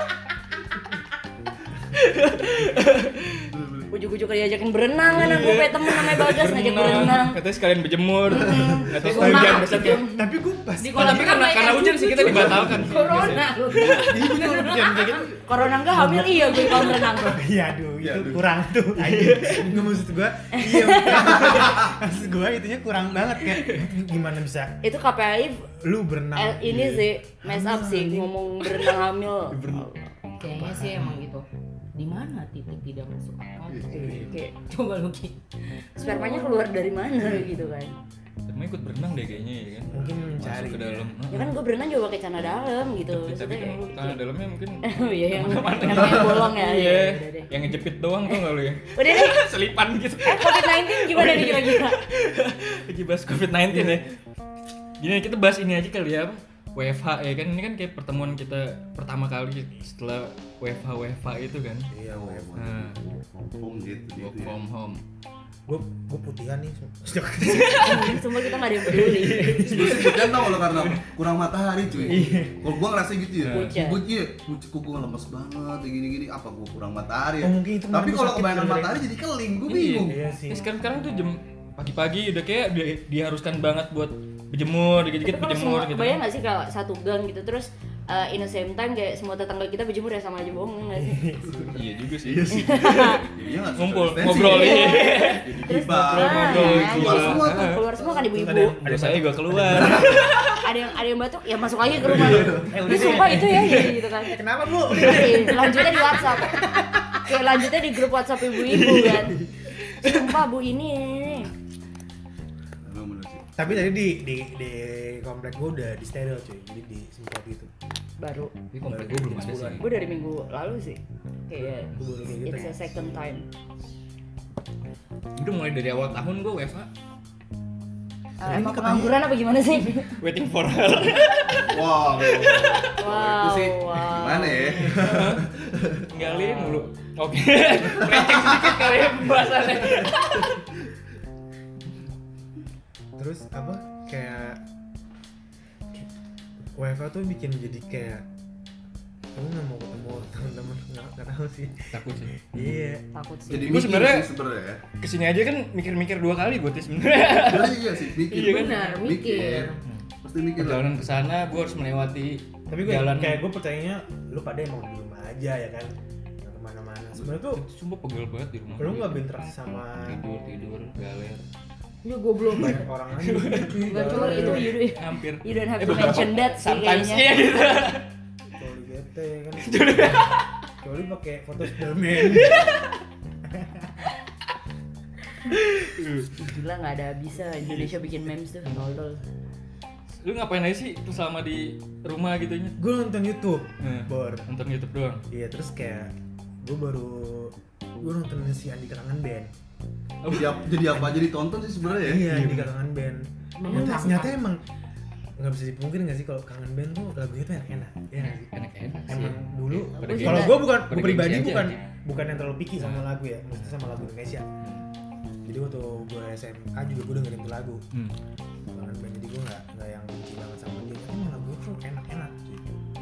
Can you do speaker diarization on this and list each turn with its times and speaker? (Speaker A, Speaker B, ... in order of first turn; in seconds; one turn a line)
Speaker A: 1.9-3.5
Speaker B: 3.5-3.9
Speaker C: 3.9-7.4
Speaker A: 5.0-10.1
Speaker C: 8.3-10.3
Speaker D: 8.5-11.3
Speaker E: 10.8-15.3
Speaker A: 10.9-14.2
Speaker B: 12.2-12.9
Speaker D: 12.3-24.8
Speaker C: 15.4-17.4
Speaker E: 16.4-17.0
Speaker B: 18.0-18.4
Speaker A: 18.9-19.9
Speaker C: 20.5-21.7
Speaker B: 21.5-21.9
Speaker A: 23.5-23.9
Speaker C: 24.8-25.7
Speaker D: 25.8-28.3
Speaker C: 26.4-30.1
Speaker D: 29.5-29.8
Speaker E: 30.4-36.6
Speaker D: 30.4-31.1
Speaker B: 33.7-34.2
Speaker C: 33.9-34.5
Speaker D: 34.0-34.4
Speaker C: 36.0-38.0
Speaker A: 38.5-41.6
Speaker D: 39.9-41.0
Speaker C: 41.3-44.2
Speaker A: 43.1-54.2
Speaker C: 44.8-47.5
Speaker C: 48.3-49.5
Speaker C: 50.2-52.0
Speaker D: 53.7-54.0
Speaker A: 55.0-61.9
Speaker D: 61.9-62.5
Speaker B: 62.1-64.6
Speaker A: 62.6-63.0
Speaker A: 64.2-65.0
Speaker D: 65.7-68.2
Speaker A: 67.4-68.2
Speaker C: 67.8-69.7
Speaker A: 68.8-71.0
Speaker B: 69.5-80.2
Speaker A: 72.0-72.5
Speaker D: 72.0-72.6
Speaker A: 73.4-73.8
Speaker C: 73.5-74.0
Speaker D: 77.4-79.0
Speaker A: 79.7-86.2
Speaker D: 80.0-80.7
Speaker C: 85.2-91.4
Speaker D: 91.0-91.7
Speaker B: 91.5-97.8
Speaker A: 91.7-97.9
Speaker C: 92.5-93.3
Speaker C: 94.3-98.8
Speaker D: 98.3-100.2
Speaker A: 98.7-100.6
Speaker B: 99.8-100.5
Speaker C: 100.5-106.7
Speaker B: 102.1-102.8
Speaker A: 102.3-104.2
Speaker D: 102.6-105.9
Speaker A: 104.9-105.9
Speaker D: 106.5-107.0
Speaker C: 107.2-109.4
Speaker A: 108.5-110.4
Speaker C: 110.0-111.5
Speaker B: 112.8-113.6
Speaker D: 113.6-117.7
Speaker C: 118.2-118.6
Speaker A: 118.7-119.9
Speaker D: 118.9-119.8
Speaker C: 119.7-123.5
Speaker D: 121.9-123.0
Speaker A: 125.4-126.9
Speaker C: 128.4-130.2
Speaker D: 128.4-129.2
Speaker A: 130.0-133.0
Speaker B: 131.6-136.1
Speaker C: 133.0-135.3
Speaker A: 134.9-135.5
Speaker A: 136.0-140.6
Speaker C: 136.2-136.8
Speaker B: 138.3-138.7
Speaker D: 143.2-144.6
Speaker D: 146.8-148.3
Speaker D: 149.3-151.9
Speaker A: 151.9-152.8
Speaker D: 152.5-153.1
Speaker C: 153.1-153.8
Speaker B: 153.5-154.8
Speaker A: 153.6-154.3
Speaker A: 155.0-159.0
Speaker B: 157.3-160.9
Speaker E: 158.3-159.8
Speaker A: 159.8-163.5
Speaker D: 162.7-167.6
Speaker A: 167.4-169.3
Speaker D: 168.8-170.2
Speaker A: 170.0-171.4
Speaker E: 172.0-172.9
Speaker D: 172.5-174.8
Speaker A: 172.6-178.1
Speaker C: 173.8-177.4
Speaker E: 173.9-174.7
Speaker D: 178.6-182.8
Speaker A: 179.6-180.5
Speaker A: 182.2-182.9
Speaker D: 183.5-184.1
Speaker A: 185.4-186.4
Speaker C: 186.4-189.2
Speaker A: 187.7-188.1
Speaker A: 190.2-192.8
Speaker D: 192.8-194.5
Speaker A: 193.8-195.2
Speaker D: 195.3-199.5
Speaker A: 200.2-200.6
Speaker B: 200.3-202.3
Speaker D: 202.0-204.6
Speaker A: 202.3-202.7
Speaker E: 203.6-204.4
Speaker D: 205.4-208.4
Speaker A: 208.2-211.8
Speaker D: 209.1-214.5
Speaker C: 210.0-210.6
Speaker A: 212.8-213.8
Speaker D: 215.4-217.8
Speaker D: 218.7-222.7